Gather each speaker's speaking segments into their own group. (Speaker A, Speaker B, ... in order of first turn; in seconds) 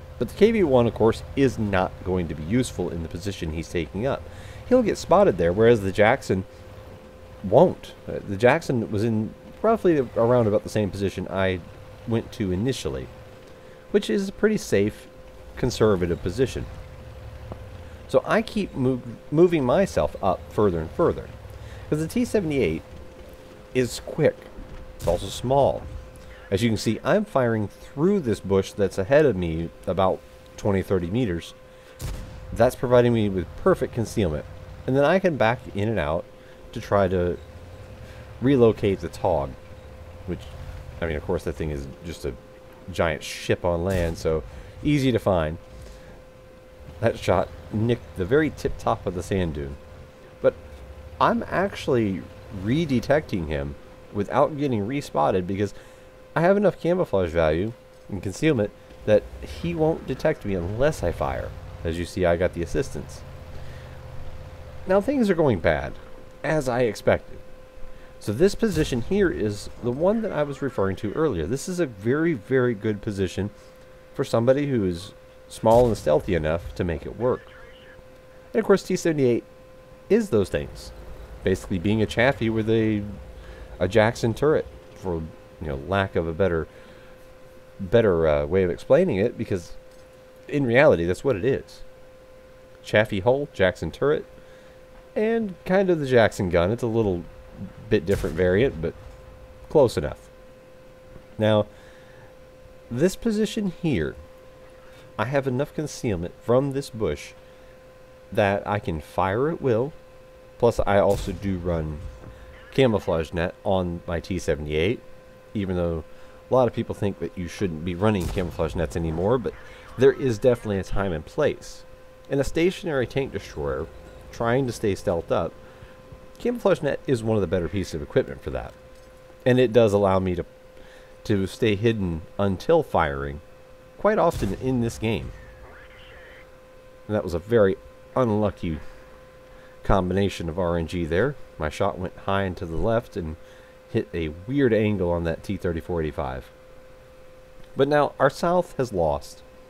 Speaker A: 0.2-6.5, 7.4-13.1, 13.9-16.7, 18.1-21.3, 21.9-22.9, 23.7-24.5, 25.0-25.9, 26.5-31.6, 32.5-37.4, 38.4-39.6, 40.2-45.6, 47.0-49.8, 51.2-55.7, 56.3-63.2, 64.8-67.4, 68.2-73.5, 74.1-77.5, 78.5-79.5, 80.1-83.1, 83.8-86.7, 87.8-89.8, 90.5-91.8, 92.8-94.3, 95.1-99.0, 99.7-100.3, 101.4-101.7, 102.9-104.2, 105.2-107.4, 108.3-109.9, 110.6-112.1, 112.7-125.6, 126.4-128.8, 129.5-130.5, 131.2-133.4, 134.0-135.3, 137.1-138.8, 139.8-146.5, 147.8-149.4